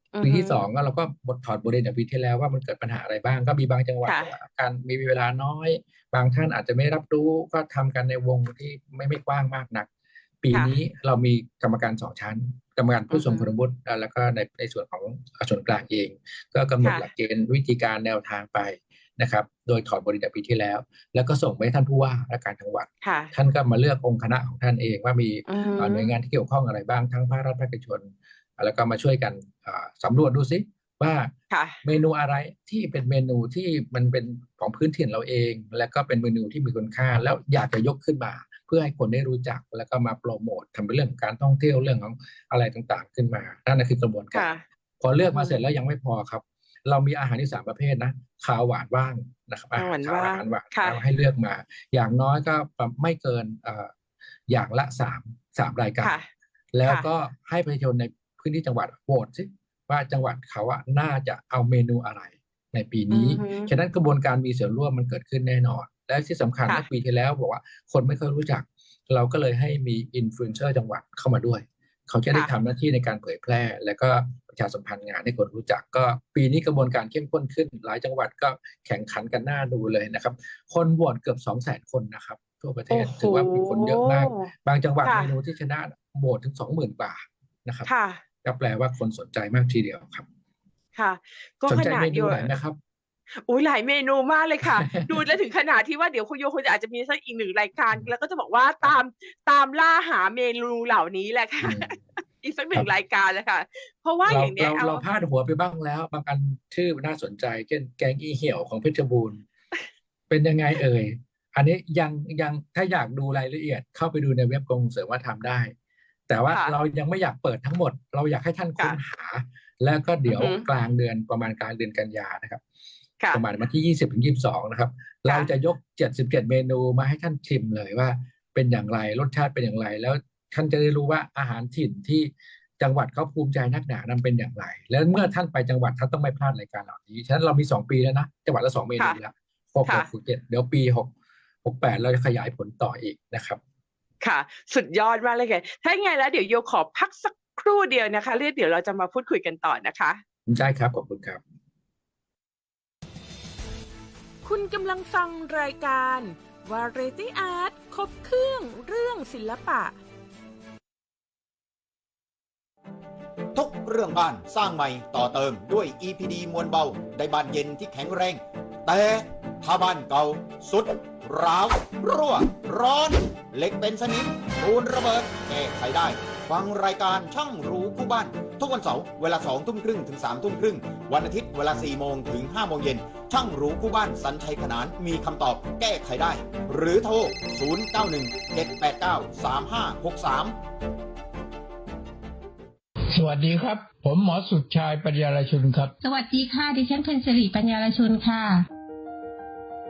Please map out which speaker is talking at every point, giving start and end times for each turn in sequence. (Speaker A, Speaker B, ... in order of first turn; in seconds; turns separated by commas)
Speaker A: 0.1-0.6, Speaker B: 0.2-9.9, Speaker A: 4.0-4.3, Speaker B: 10.4-44.5, Speaker A: 13.1-13.5, Speaker A: 16.8-17.1, Speaker A: 23.0-23.3, Speaker A: 25.5-26.1, Speaker A: 31.5-31.8, Speaker A: 44.3-44.6, Speaker B: 45.0-53.9, Speaker A: 45.3-45.6, Speaker A: 49.8-51.0, Speaker B: 54.5-56.2, Speaker A: 56.0-56.3, Speaker B: 56.7-87.9, Speaker A: 63.1-63.7, Speaker A: 82.9-84.5, Speaker A: 85.0-85.3, Speaker A: 87.8-88.2, Speaker B: 88.4-90.2, Speaker A: 91.0-92.5, Speaker B: 91.7-92.8, Speaker A: 93.4-105.0, Speaker B: 94.6-95.2, Speaker B: 101.6-102.0, Speaker B: 104.3-109.4, Speaker B: 110.3-115.7, Speaker B: 116.3-122.6, Speaker A: 116.5-116.8, Speaker A: 120.3-120.7, Speaker B: 123.3-141.1, Speaker A: 125.3-125.5, Speaker B: 141.6-143.6, Speaker A: 144.2-150.2, Speaker B: 150.5-151.4, Speaker A: 154.4-159.9, Speaker C: 163.5-190.6, Speaker D: 193.1-195.9, Speaker E: 196.0-198.7